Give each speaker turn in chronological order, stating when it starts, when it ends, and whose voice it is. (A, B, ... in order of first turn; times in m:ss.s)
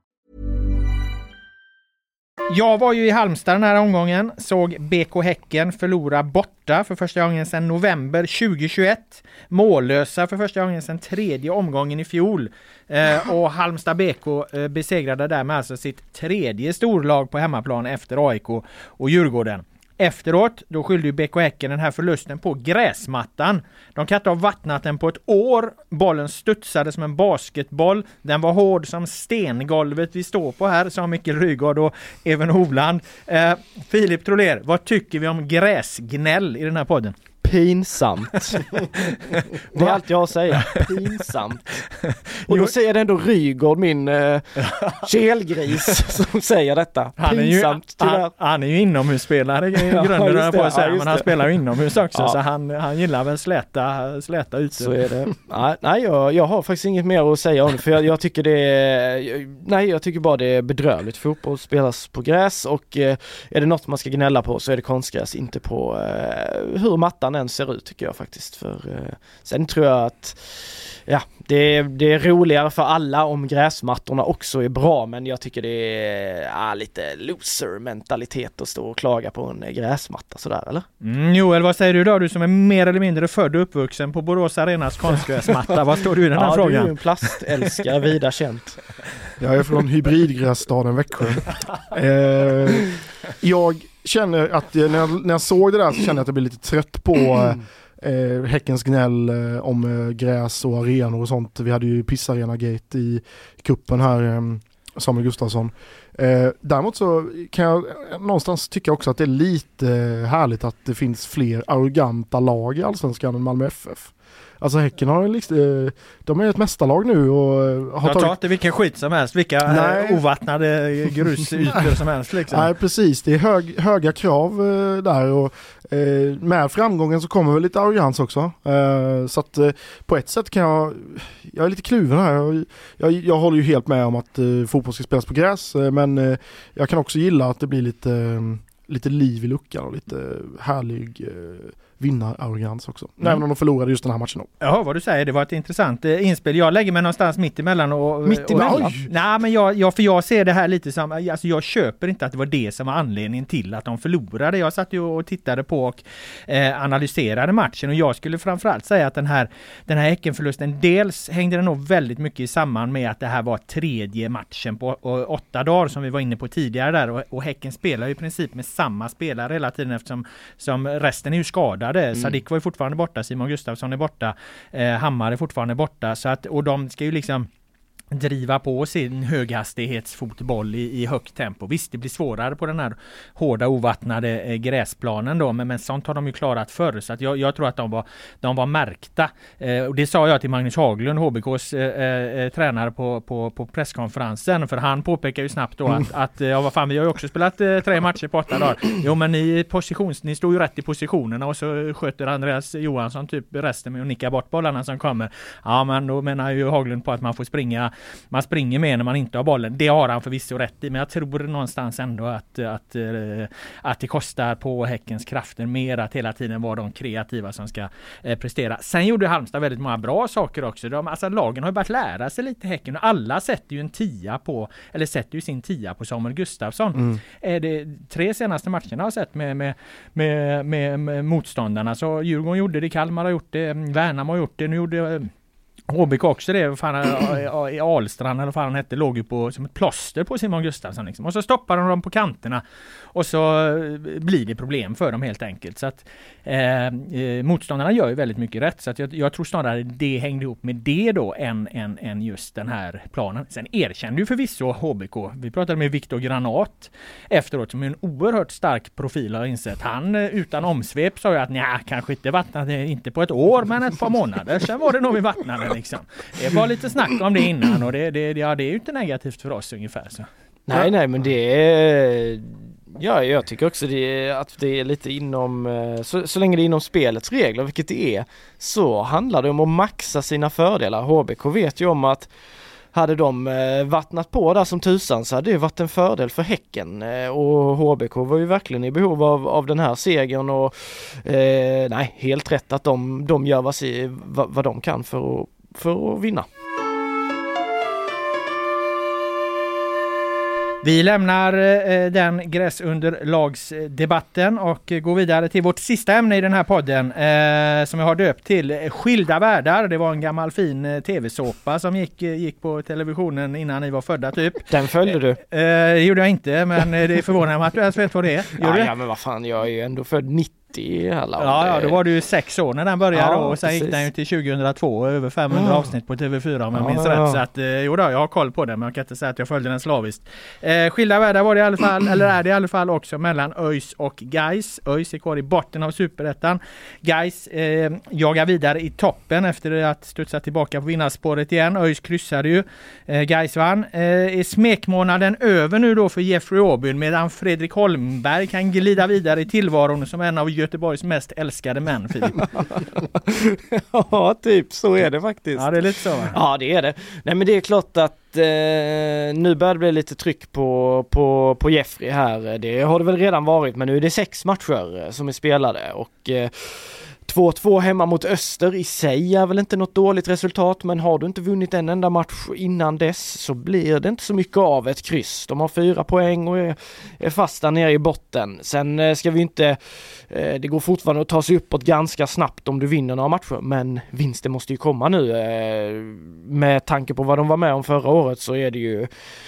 0:02.5-0:37.2 A
0:37.4-0:38.8 B
0:38.7-0:41.0 A
0:39.7-0:41.8 B
0:42.0-0:42.7 A
0:42.5-0:48.3 B
0:44.6-0:45.0 A
0:47.2-0:54.9 A
0:49.8-0:51.5 B
0:54.7-1:20.9 B
1:21.0-1:26.9 A
1:26.3-1:28.8 B
1:29.4-1:58.3 C
1:58.0-2:02.7 A
1:59.6-2:00.2 C
2:02.5-2:24.5 C
2:24.6-2:57.5 A
2:28.2-2:29.0 B
2:28.5-2:29.1 C
2:58.1-3:55.3 A
3:47.0-3:47.2 C
3:55.9-4:02.6 A
4:03.1-4:30.3 A
4:30.7-4:42.3 B
4:42.9-4:56.5 B
5:00.8-5:14.7 A
5:14.7-5:15.4 B
5:15.5-5:18.9 A
5:18.6-5:22.0 B
5:21.4-5:52.6 A
5:23.1-5:24.0 B
5:26.7-5:27.4 B
5:53.0-6:29.1 B
5:55.6-5:56.4 A